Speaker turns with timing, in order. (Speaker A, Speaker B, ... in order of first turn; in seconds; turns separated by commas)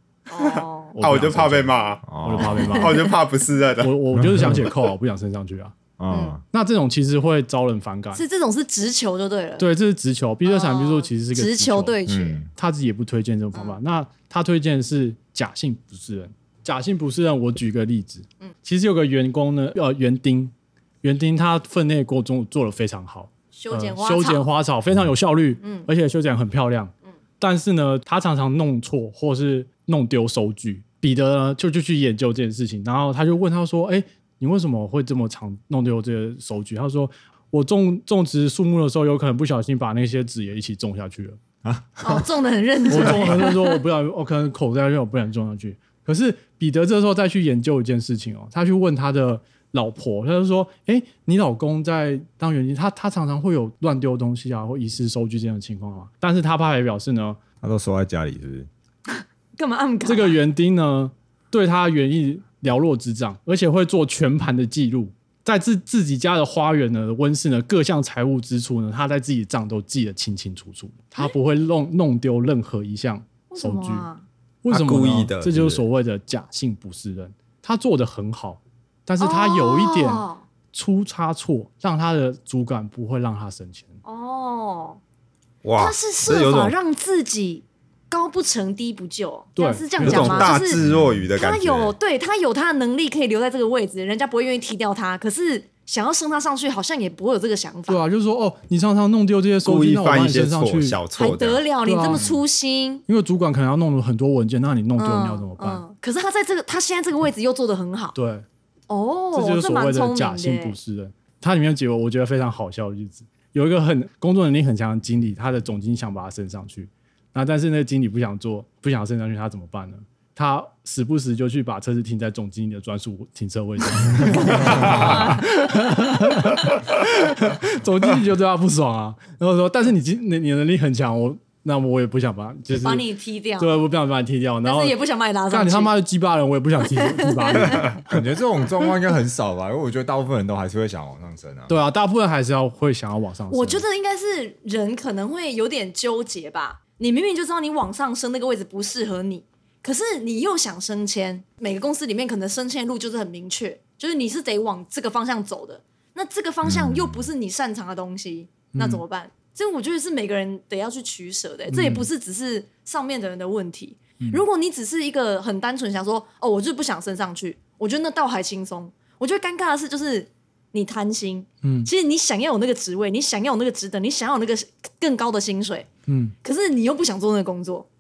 Speaker A: 0.3-0.9, Speaker B: 0.6-4.0, Speaker C: 0.9-3.0, Speaker D: 2.1-2.6, Speaker A: 2.5-3.1, Speaker C: 3.8-5.8, Speaker D: 4.2-4.6, Speaker D: 6.0-6.4, Speaker C: 6.5-8.2, Speaker A: 8.1-9.7, Speaker C: 9.6-12.0, Speaker A: 10.4-12.5, Speaker D: 12.1-12.5, Speaker C: 12.6-41.4, Speaker A: 23.5-24.4, Speaker A: 25.6-25.9, Speaker D: 41.6-42.3, Speaker A: 42.0-43.8, Speaker C: 42.9-57.4, Speaker D: 57.6-58.7, Speaker A: 59.2-60.4, Speaker C: 60.0-74.1, Speaker A: 73.5-74.2, Speaker C: 74.6-83.9, Speaker B: 74.7-75.8, Speaker A: 79.2-80.4, Speaker A: 84.0-85.0, Speaker B: 85.6-86.8, Speaker A: 85.8-90.8, Speaker C: 89.6-90.6, Speaker B: 90.0-92.0, Speaker D: 90.8-91.3, Speaker A: 91.4-98.0, Speaker C: 97.9-101.0, Speaker B: 99.6-101.6, Speaker A: 101.2-103.0, Speaker C: 101.8-102.3, Speaker C: 103.1-105.8, Speaker A: 105.0-108.2, Speaker C: 108.2-108.5, Speaker A: 108.9-110.8, Speaker C: 109.3-133.1, Speaker A: 124.2-125.5, Speaker A: 132.8-133.7, Speaker C: 133.6-135.0, Speaker A: 134.6-135.9, Speaker C: 135.5-138.0, Speaker A: 136.8-137.9, Speaker D: 137.7-141.8, Speaker C: 141.7-143.8, Speaker A: 143.5-175.9, Speaker D: 156.6-157.3, Speaker C: 158.7-159.0, Speaker C: 161.7-162.1, Speaker C: 171.6-171.9, Speaker C: 176.1-176.3, Speaker A: 176.4-177.9